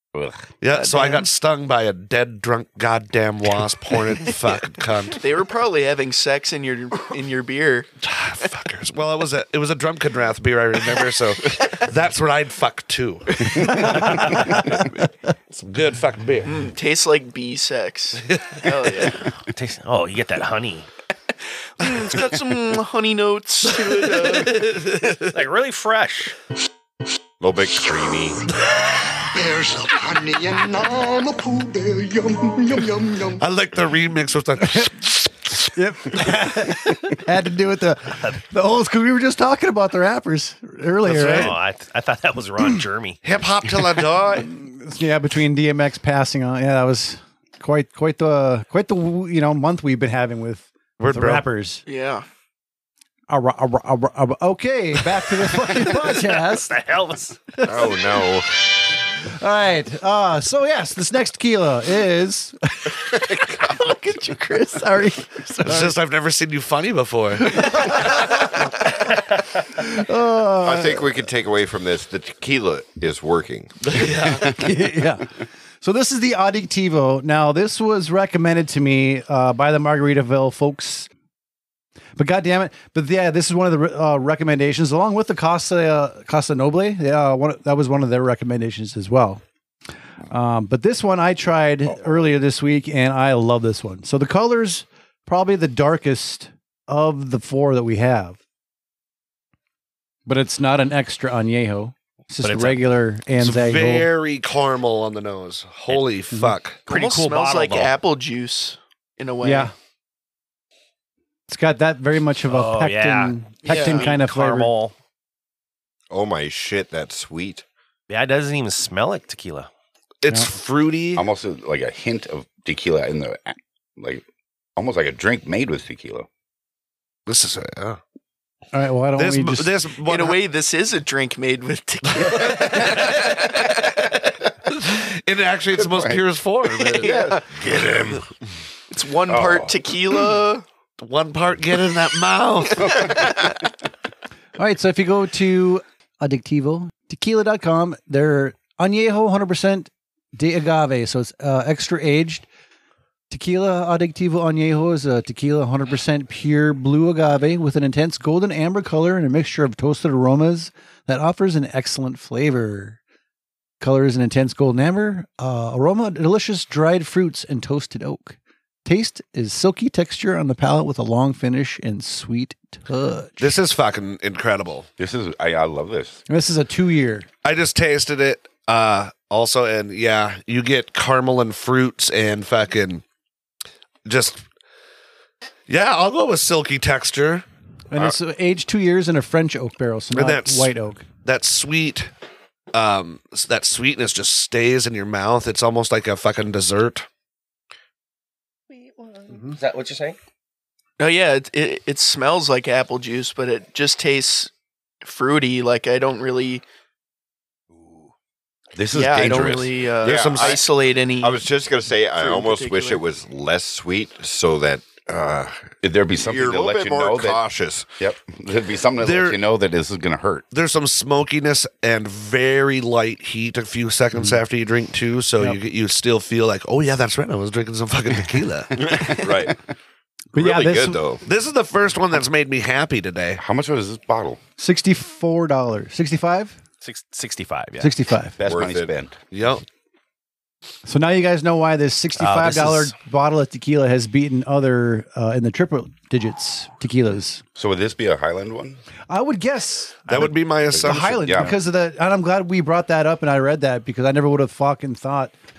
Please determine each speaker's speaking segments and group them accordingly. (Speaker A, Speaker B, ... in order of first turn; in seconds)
Speaker A: 0.1-0.6, 121.2-124.2, 124.8-126.3, 135.8-136.2, 137.0-137.4, 139.3-139.7, 175.0-176.2, 208.8-209.8, 215.8-217.4, 218.0-220.5, 233.4-234.4, 238.4-239.2, 247.6-248.8, 250.7-251.6
Speaker B: 0.6-5.3, 8.0-14.9, 15.5-16.6, 18.3-19.1, 23.7-25.4, 33.4-35.3, 41.0-41.5, 43.2-44.5, 51.0-51.5, 65.6-68.1, 73.8-74.6, 103.4-106.9, 120.2-121.3, 127.3-128.0, 129.2-130.4, 132.1-133.6, 134.7-138.2, 141.0-143.2, 173.4-174.9, 177.4-183.0, 184.1-184.4, 185.7-187.4, 190.1-192.1, 192.7-197.1, 210.0-210.6, 219.0-219.4, 220.5-229.3, 231.2-233.4, 239.3-239.6, 250.1-251.5
Speaker C: 0.7-1.3, 5.2-7.9, 16.5-19.3, 21.8-24.7, 51.9-52.2, 106.9-109.7, 113.7-114.1, 130.1-133.4, 137.0-137.4, 138.9-140.6, 201.0-204.5, 205.0-206.6, 208.9-211.4, 212.2-213.0
Speaker D: 13.7-14.6, 34.6-34.9, 35.7-41.5, 44.5-51.8, 53.3-56.7, 57.6-57.9, 59.2-66.0, 67.5-68.9, 69.6-71.1, 74.5-75.3, 75.8-81.1, 82.2-89.4, 90.3-98.4, 100.3-104.1, 109.4-109.7, 111.5-114.7, 128.7-129.7, 144.6-152.5, 153.3-163.0, 163.8-173.5, 176.3-177.3, 187.9-191.1, 230.3-231.0, 234.6-236.6, 237.8-238.4, 240.9-247.4, 249.1-255.3
Speaker E: 19.5-20.9, 25.3-26.4, 41.2-43.2, 55.5-57.4, 102.4-102.8, 106.9-107.9, 112.5-114.9, 118.1-119.7, 198.8-200.2, 236.8-237.9, 242.2-242.9
Speaker F: 27.4-28.4, 57.6-58.5, 70.6-74.1, 116.1-117.6, 210.0-210.6, 211.2-215.7, 216.2-217.9, 228.8-229.6, 230.3-231.2, 238.4-238.9
Speaker G: 29.3-33.4